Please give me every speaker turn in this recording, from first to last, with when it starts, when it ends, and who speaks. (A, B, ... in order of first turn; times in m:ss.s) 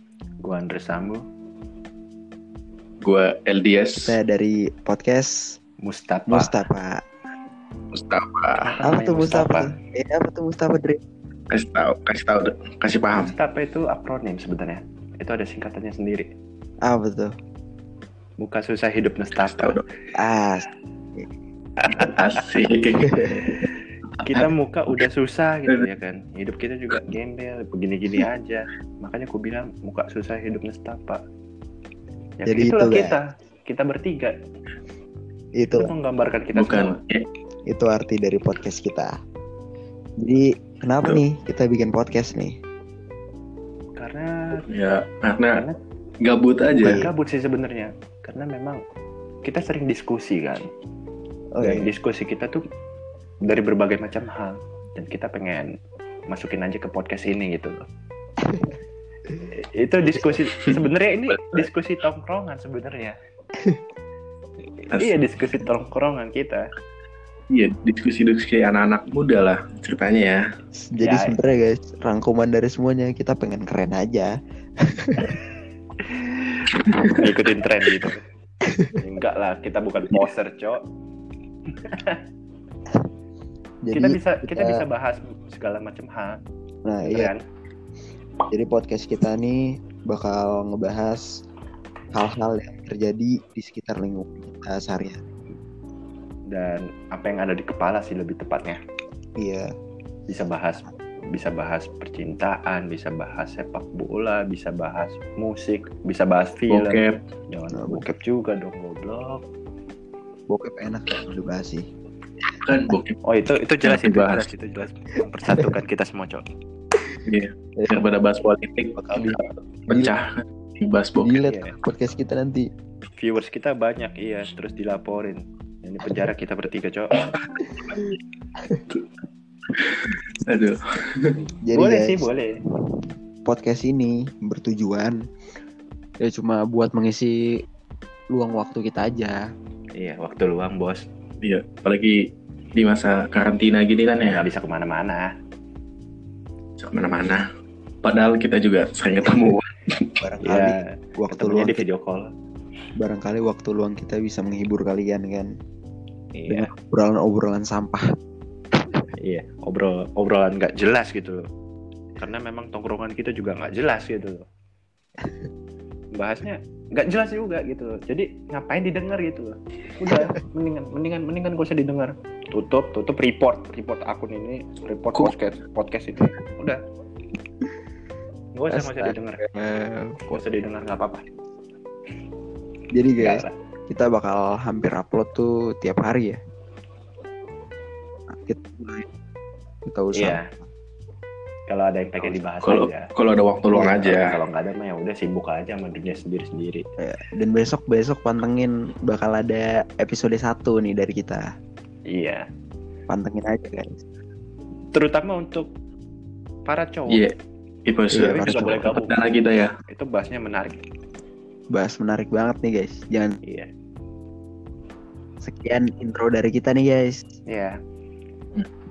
0:00.4-0:01.2 A
0:03.0-0:04.2 B
0:04.0-0:05.6 C
0:05.8-0:06.6 A
0:06.3-0:07.0 C
0:07.9-0:08.7 B
0:08.6-0:09.7 A
0:08.8-0:11.0 C
0:11.5-0:13.3 B
0:13.1-0:16.3 A
0:16.8-0:17.3 C
0:18.4-0:19.8 A
0:19.5-0:19.8 B
0:20.2-0:20.7 C
0:21.8-0:22.2 A
0:21.9-0:23.4 B
0:23.1-0:23.5 C
0:23.2-0:23.7 A
0:24.2-0:31.2 A
0:32.4-0:34.4 A
0:32.4-0:33.2 C
0:35.6-0:35.9 C
0:35.8-0:36.9 A
0:36.5-0:37.3 B
0:37.7-0:39.1 C
0:40.2-0:42.6 C
0:44.0-0:44.6 A
0:44.7-0:45.6 B
0:46.2-0:47.1 B
0:46.8-0:47.1 C
0:46.8-0:48.8 A
0:49.4-0:50.7 A
0:51.5-0:51.9 C
0:51.6-0:52.6 A
0:53.4-0:55.7 A
0:56.3-0:57.9 A
0:59.5-1:03.2 A
1:04.8-1:06.6 A
1:07.5-1:10.4 B
1:10.7-1:14.3 C
1:11.0-1:11.4 A
1:14.9-1:15.4 C
1:16.2-1:16.5 A
1:17.2-1:18.2 A
1:18.6-1:19.0 C
1:19.0-1:20.8 A
1:21.8-1:22.2 A
1:23.8-1:24.8 C
1:23.9-1:26.4 A
1:26.8-1:27.3 C
1:27.0-1:27.4 A
1:28.5-1:31.2 C
1:32.1-1:35.3 C
1:36.5-1:38.8 A
1:39.4-1:39.7 C
1:40.3-1:49.4 A
1:46.7-1:47.2 B
1:47.7-1:48.0 C
1:50.5-1:51.9 C
1:52.6-1:53.2 B
1:53.2-1:56.4 A
1:53.8-1:54.5 B
1:57.3-2:01.4 B
1:58.9-2:00.1 C
2:01.2-2:02.7 C
2:01.4-2:01.8 A
2:03.2-2:07.2 A
2:09.7-2:11.3 B
2:11.6-2:12.3 C
2:11.7-2:12.6 A
2:13.4-2:15.2 C
2:16.2-2:17.5 C
2:18.3-2:19.4 C
2:19.9-2:21.0 A
2:21.4-2:24.5 B
2:24.2-2:25.3 A
2:26.8-2:27.4 B
2:28.0-2:29.8 B
2:30.2-2:31.8 C
2:30.4-2:32.3 A
2:33.0-2:35.5 C
2:36.3-2:36.7 A
2:36.5-2:38.0 C
2:39.2-2:41.4 A
2:42.2-2:44.4 A
2:46.1-2:56.8 A
2:58.5-2:59.4 A
2:58.7-3:00.4 C
3:00.3-3:01.2 A
3:02.9-3:06.4 C
3:03.2-3:03.5 A
3:08.4-3:09.1 C
3:09.8-3:10.4 C
3:10.1-3:10.5 A
3:11.7-3:13.1 A
3:12.6-3:14.3 B
3:13.7-3:16.8 A
3:17.0-3:21.5 C
3:22.1-3:22.4 A
3:23.1-3:24.0 C
3:24.9-3:25.7 A
3:26.6-3:27.3 A
3:27.8-3:29.7 B
3:28.1-3:28.8 C
3:28.2-3:29.3 A
3:29.9-3:30.8 A
3:31.7-3:33.4 C
3:33.4-3:33.7 A
3:35.4-3:37.3 C
3:37.5-3:37.8 A